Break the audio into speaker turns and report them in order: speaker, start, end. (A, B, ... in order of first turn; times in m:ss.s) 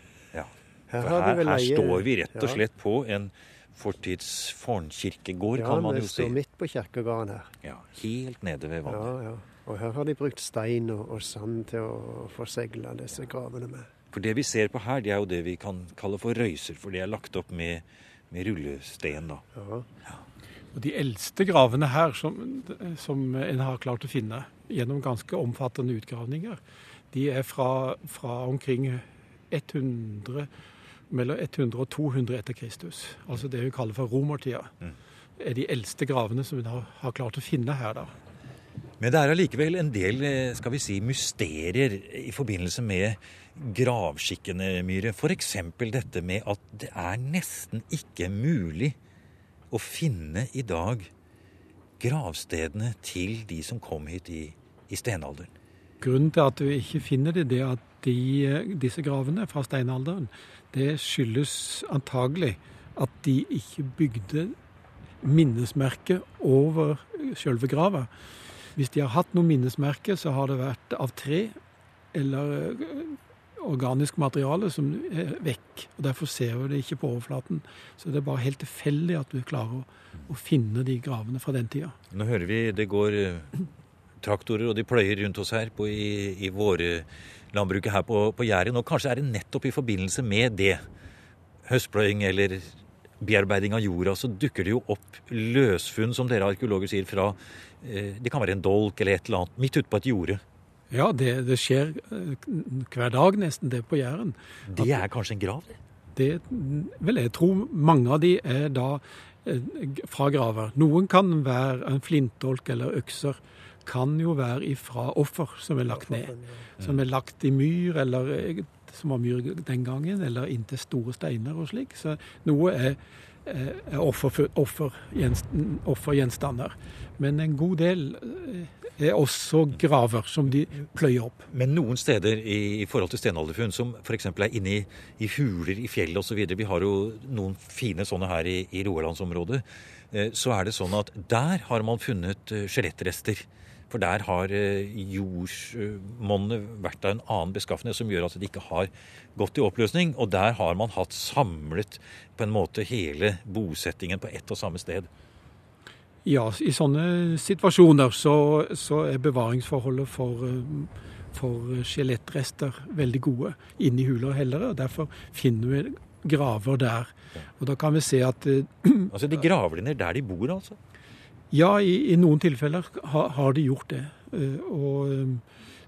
0:00.3-0:06.4 A
0:00.9-0:02.6 B
0:05.6-0:07.5 B
0:07.6-0:09.1 A
0:08.8-0:13.9 B
0:14.1-0:19.4 A
0:19.5-0:19.9 B
0:20.7-0:26.6 C
0:27.1-0:30.5 C
0:31.1-0:34.7 C
0:35.4-0:38.1 C
0:39.0-0:49.0 A
0:49.7-0:51.1 A
0:52.0-0:55.5 A
0:56.0-1:04.6 C
1:05.2-1:08.1 C
1:08.8-1:11.6 C
1:12.1-1:22.0 C
1:22.1-1:23.6 A
1:24.2-1:30.8 A
1:31.7-1:40.4 A
1:40.9-1:44.9 C
1:44.7-1:45.8 A
1:46.1-2:11.5 C
1:55.9-1:56.7 B
2:11.5-2:35.1 A
2:36.2-2:49.2 C
2:49.1-2:50.8 A
2:51.5-2:55.4 C